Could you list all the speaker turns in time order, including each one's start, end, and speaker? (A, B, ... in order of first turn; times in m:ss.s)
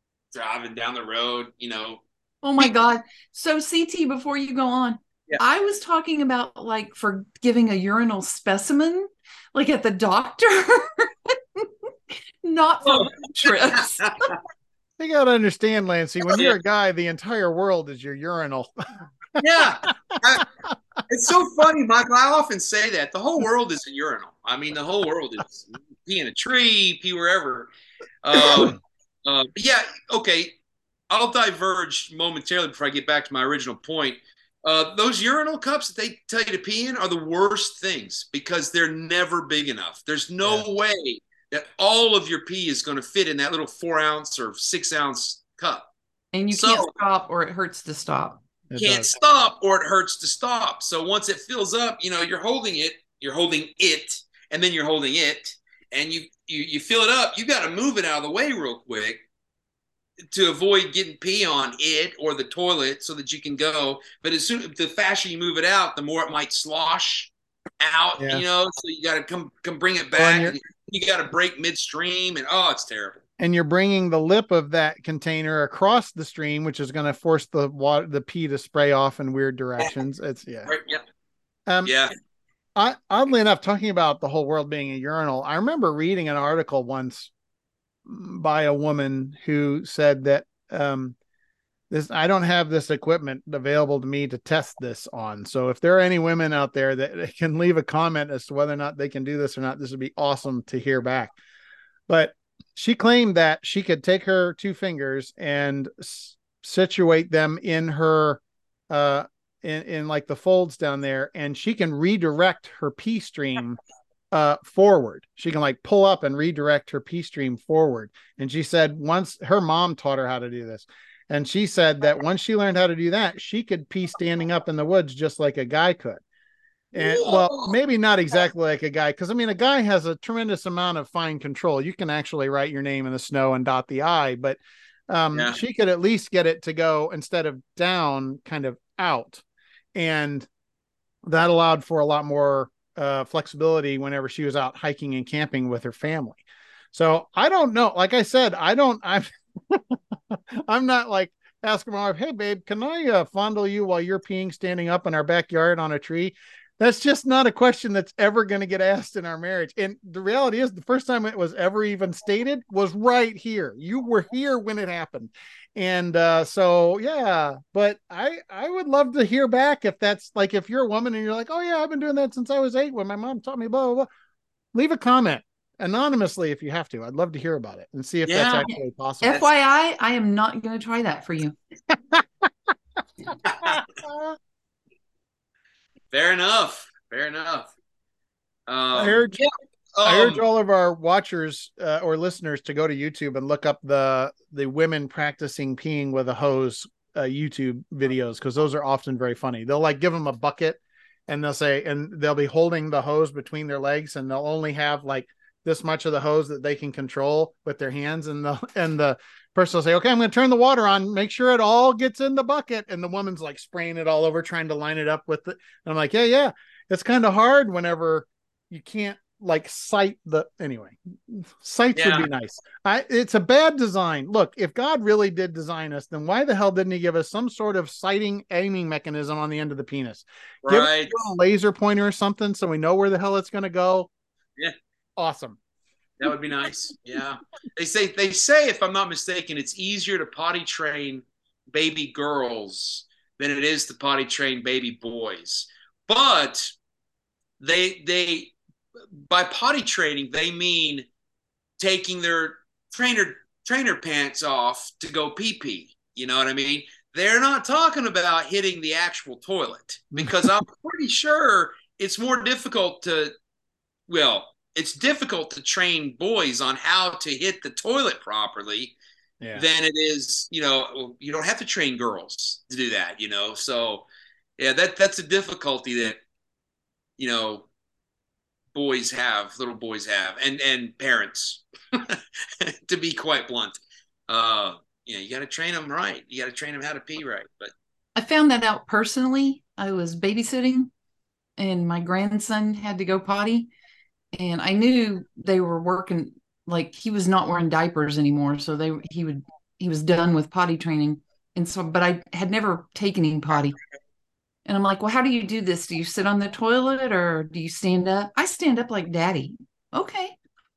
0:00.3-0:02.0 A
0:02.4-0:14.2 B
0:12.8-0:14.3 A
0:15.0-0:18.7 C
0:19.4-0:20.5 A
0:20.4-0:20.7 C
0:21.1-0:27.7 A
0:28.2-0:30.6 A
0:28.3-0:28.8 C
0:31.1-0:45.9 A
0:46.3-0:48.4 B
0:46.5-0:46.9 A
0:48.7-0:49.1 C
0:48.8-0:59.2 A
1:00.3-1:13.2 A
1:08.2-1:08.4 C
1:10.2-1:10.6 C
1:13.4-1:20.7 C
1:20.7-1:21.0 A
1:21.7-1:22.0 C
1:21.8-1:22.1 A
1:22.8-1:27.3 C
1:28.1-1:31.2 C
1:31.9-1:41.4 C
1:42.1-1:53.8 C
1:54.3-2:06.2 C
2:06.9-2:19.4 C
2:07.0-2:07.7 A
2:20.0-2:20.5 C
2:21.2-2:54.1 C
2:54.7-2:59.4 C
2:58.3-2:58.6 A
2:58.7-3:01.6 B
3:01.9-3:02.5 C
3:03.4-3:03.8 A
3:03.6-3:04.4 C
3:06.1-3:07.7 A
3:08.7-3:10.4 A
3:08.9-3:09.4 C
3:10.0-3:54.1 C
3:41.9-3:42.3 A
3:50.6-3:51.2 A
3:55.2-3:55.6 C
3:56.2-4:06.7 A
4:07.6-4:08.5 A
4:09.2-4:11.1 A
4:11.8-4:23.3 A
4:20.2-4:20.6 C
4:24.1-4:28.9 A
4:29.6-4:34.0 A
4:34.6-4:36.2 A
4:37.2-4:37.7 A
4:38.7-4:47.7 A
4:48.2-4:50.9 B
4:51.6-4:53.7 B
4:54.4-5:03.8 B
5:04.7-5:10.4 B